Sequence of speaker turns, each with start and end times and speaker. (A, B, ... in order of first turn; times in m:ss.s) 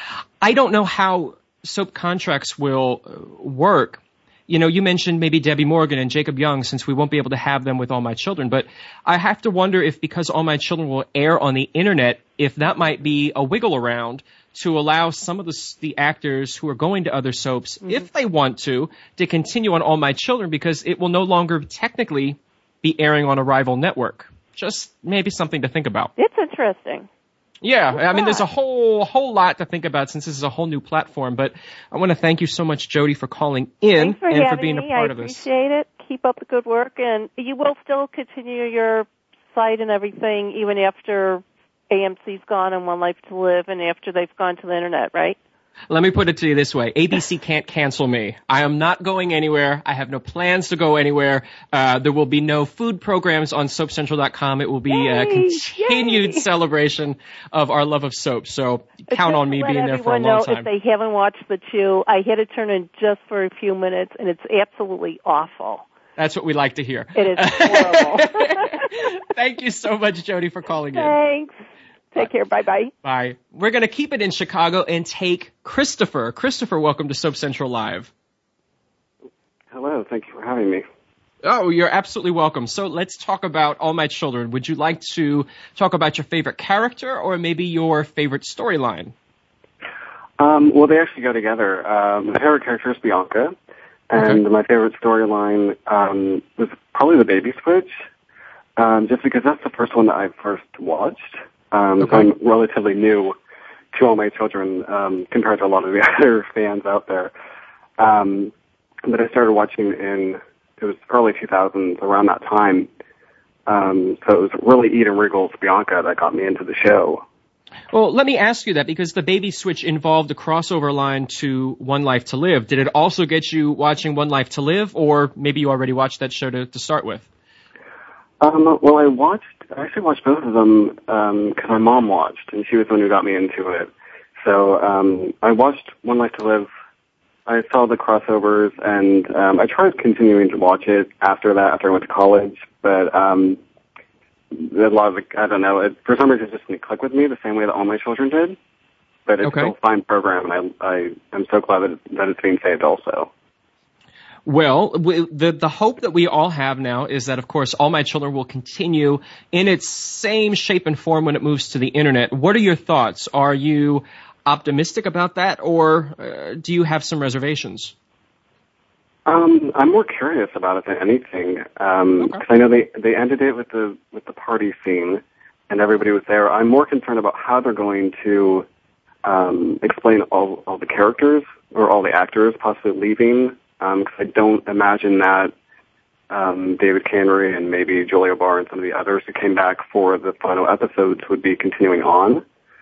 0:00.4-0:26.1 A
0:26.2-0:27.1 B
0:27.6-0:35.5 A
0:27.9-0:28.4 B
0:34.0-0:45.4 B
0:45.9-1:00.7 A
0:54.9-0:56.4 B
0:59.1-1:05.9 B
1:06.2-1:11.2 A
1:07.2-1:08.9 B
1:10.9-1:11.6 B
1:12.1-1:12.9 B
1:13.0-1:18.1 A
1:19.7-1:20.8 C
1:21.4-1:29.1 A
1:30.4-1:33.6 C
1:34.1-1:37.9 C
1:38.8-1:43.4 C
1:42.0-1:42.3 A
1:43.9-1:47.3 C
1:48.0-1:48.5 C
1:49.1-1:52.9 C
1:53.7-1:57.2 C
1:57.9-2:07.3 A
2:08.4-2:16.7 C
2:17.5-2:23.6 C
2:24.5-2:28.6 C
2:29.3-2:33.3 C
2:29.4-2:29.7 A
2:34.4-2:47.9 A
2:49.3-2:58.7 C
2:59.2-3:05.5 C
3:06.3-3:12.4 C